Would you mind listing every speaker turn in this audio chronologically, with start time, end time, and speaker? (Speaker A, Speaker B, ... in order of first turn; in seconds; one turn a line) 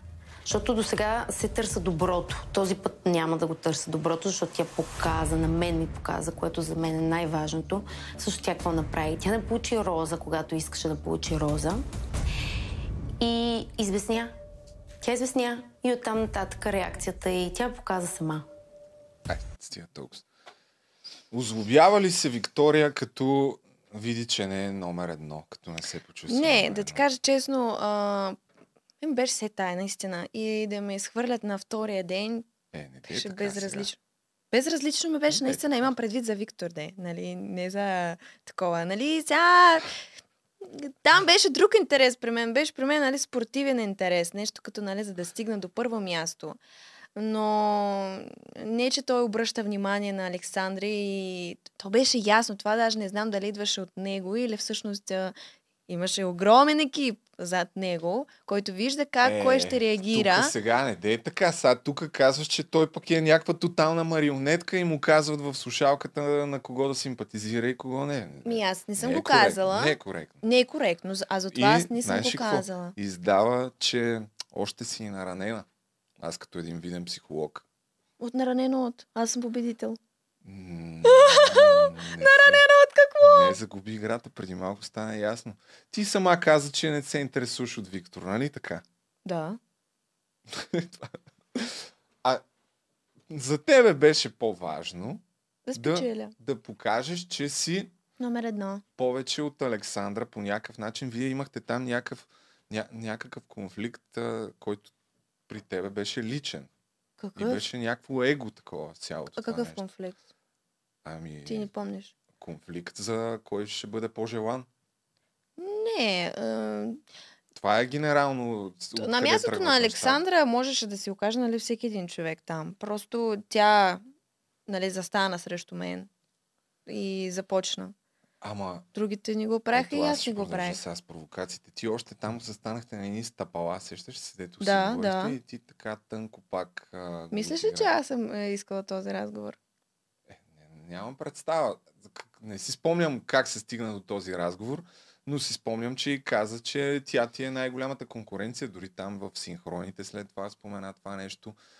Speaker A: 0.4-11.8
Speaker A: 13.2-14.3
Speaker A: 15.0-18.4
Speaker B: 19.3-20.2
Speaker B: 21.3-27.0
Speaker C: 26.3-28.4
Speaker C: 29.0-32.5
Speaker B: 32.7-33.9
Speaker C: 33.1-34.0
Speaker C: 34.5-39.9
Speaker B: 35.3-35.6
Speaker C: 40.6-46.6
Speaker C: 47.1-55.3
Speaker C: 55.9-60.5
Speaker B: 59.2-70.4
Speaker C: 68.4-72.9
Speaker B: 71.5-75.7
Speaker B: 76.2-77.6
Speaker C: 78.2-80.0
Speaker B: 80.4-82.7
Speaker C: 81.0-83.5
Speaker B: 83.2-88.8
Speaker C: 89.2-89.6
Speaker B: 90.5-92.4
Speaker B: 93.3-95.2
Speaker C: 95.7-96.3
Speaker B: 95.8-97.9
Speaker C: 98.2-98.8
Speaker B: 99.0-104.9
Speaker B: 105.5-106.7
Speaker C: 107.2-107.6
Speaker B: 107.3-109.8
Speaker C: 109.4-110.2
Speaker B: 111.0-111.7
Speaker C: 111.5-112.1
Speaker B: 112.3-114.7
Speaker C: 115.6-117.0
Speaker B: 117.5-120.2
Speaker C: 119.0-124.0
Speaker C: 124.7-126.1
Speaker C: 126.8-127.9
Speaker B: 128.4-128.9
Speaker C: 128.9-130.8
Speaker B: 129.7-137.9
Speaker C: 134.6-135.4
Speaker C: 137.3-139.6
Speaker B: 140.3-151.6